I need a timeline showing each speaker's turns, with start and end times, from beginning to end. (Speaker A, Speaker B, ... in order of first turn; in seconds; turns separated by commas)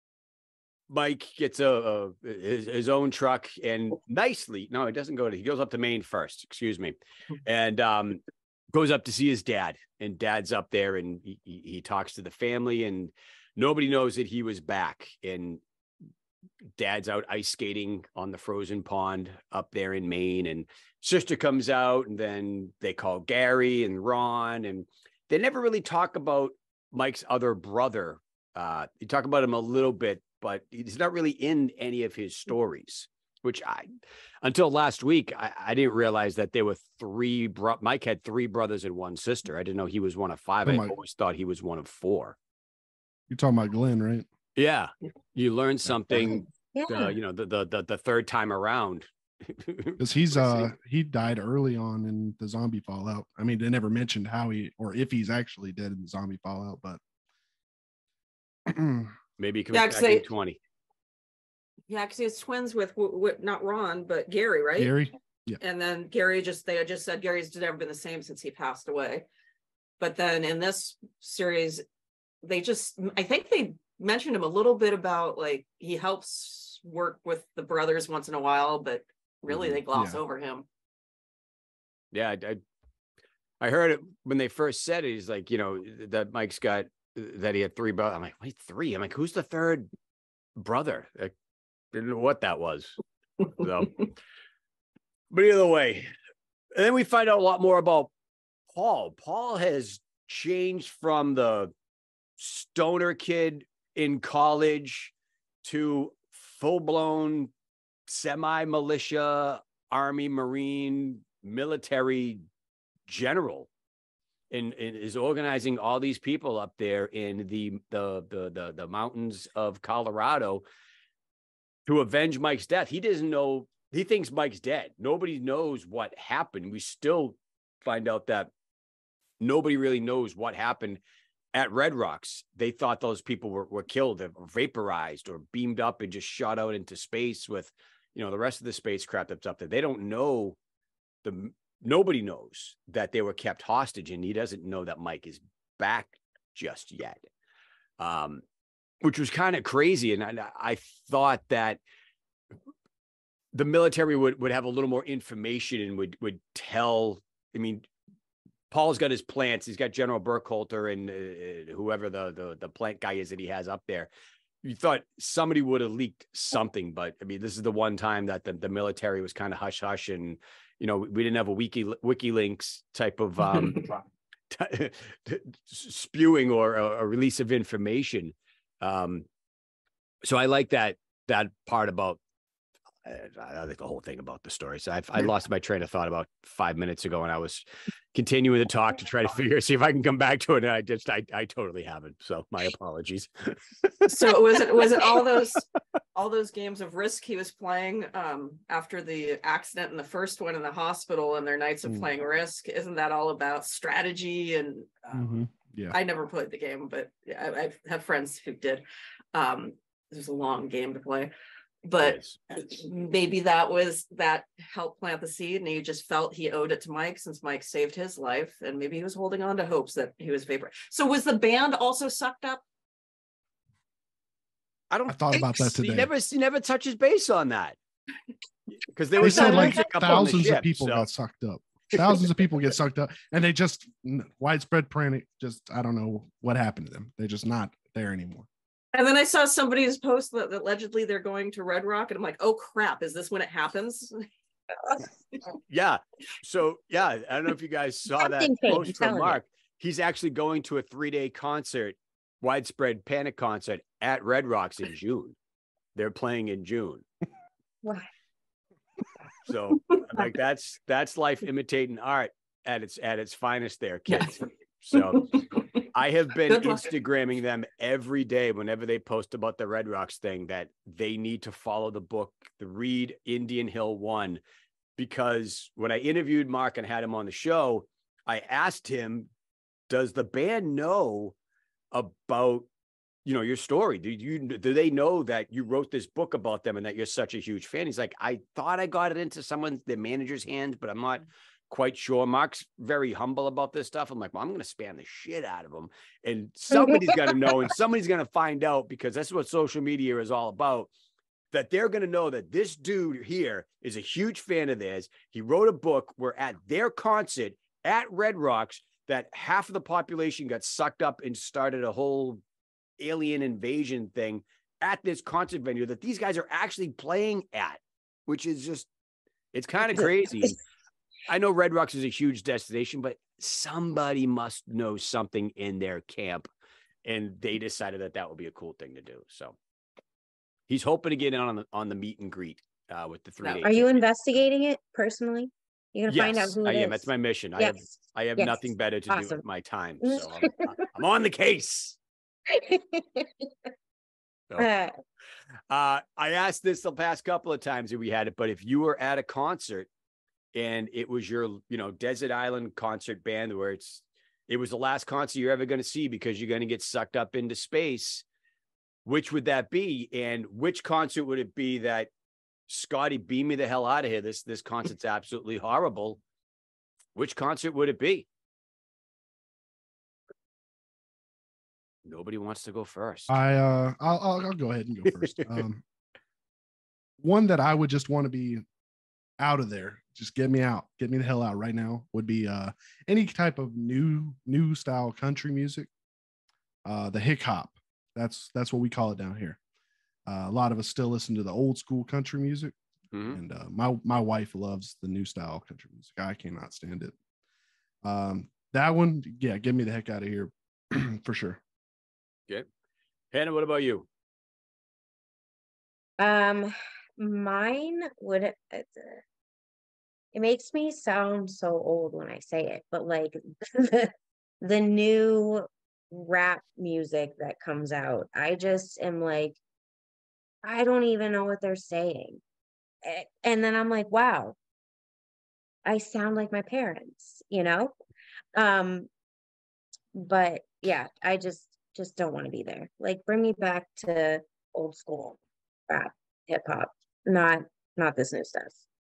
Speaker A: 0.9-15.6, Speaker A: 16.8-42.4, Speaker B: 40.6-40.9, Speaker B: 43.3-44.3, Speaker A: 44.6-50.7, Speaker B: 45.9-46.4, Speaker C: 46.7-47.1, Speaker B: 50.0-57.0, Speaker B: 58.7-59.1, Speaker A: 59.4-60.6, Speaker D: 59.7-60.3, Speaker D: 61.9-65.0, Speaker B: 64.8-65.6, Speaker D: 65.6-69.2, Speaker D: 70.0-71.8, Speaker D: 72.4-80.7, Speaker A: 79.5-79.8, Speaker B: 79.9-80.2, Speaker A: 82.1-82.6, Speaker A: 83.6-89.9, Speaker A: 90.6-91.3, Speaker A: 91.9-94.1, Speaker A: 95.3-96.1, Speaker A: 96.8-98.1, Speaker A: 98.7-101.7, Speaker A: 102.4-107.5, Speaker A: 108.1-112.4, Speaker A: 113.1-113.7, Speaker A: 114.5-120.6, Speaker A: 121.9-128.5, Speaker A: 129.4-131.0, Speaker A: 131.5-140.6, Speaker A: 141.2-147.3, Speaker A: 148.0-148.4, Speaker A: 149.0-151.8, Speaker A: 153.5-157.9, Speaker A: 158.7-164.1, Speaker A: 164.6-174.0, Speaker A: 174.5-179.3, Speaker A: 180.2-182.2, Speaker A: 183.1-194.3, Speaker D: 194.1-195.6, Speaker D: 196.2-205.3, Speaker B: 205.1-206.0, Speaker D: 205.9-211.3, Speaker D: 211.8-222.6, Speaker A: 212.0-212.4, Speaker A: 224.9-227.8, Speaker B: 225.1-226.1, Speaker A: 228.8-231.1, Speaker B: 229.2-238.5, Speaker C: 229.2-230.2, Speaker D: 238.9-244.3, Speaker A: 245.7-255.4, Speaker C: 248.2-249.4, Speaker A: 255.9-257.1, Speaker C: 257.8-258.1, Speaker A: 259.4-265.4, Speaker D: 264.1-265.8, Speaker A: 265.9-274.4, Speaker D: 266.5-266.8, Speaker A: 275.0-279.3, Speaker A: 279.9-281.4, Speaker A: 281.9-282.7, Speaker A: 283.2-300.9, Speaker A: 301.5-312.4, Speaker A: 313.0-318.9, Speaker A: 319.5-320.6, Speaker A: 321.3-326.5, Speaker A: 327.1-329.6, Speaker A: 330.7-333.9, Speaker C: 333.6-339.4, Speaker A: 336.1-342.0, Speaker C: 340.0-340.7, Speaker C: 342.5-343.5, Speaker C: 344.6-344.9, Speaker A: 345.7-349.9, Speaker A: 350.5-358.2, Speaker A: 359.1-362.1, Speaker A: 362.7-366.2, Speaker A: 367.1-368.3, Speaker A: 372.1-373.4, Speaker B: 373.3-375.8, Speaker B: 377.2-378.6, Speaker B: 379.4-385.9, Speaker B: 386.9-389.6, Speaker B: 390.3-392.7, Speaker A: 393.1-393.4, Speaker B: 393.3-397.1, Speaker B: 398.0-401.6, Speaker A: 403.3-404.1, Speaker C: 406.2-409.2, Speaker C: 410.3-419.6, Speaker C: 420.6-422.4, Speaker C: 423.0-424.6, Speaker C: 425.9-427.9, Speaker C: 428.6-429.1, Speaker C: 430.1-438.8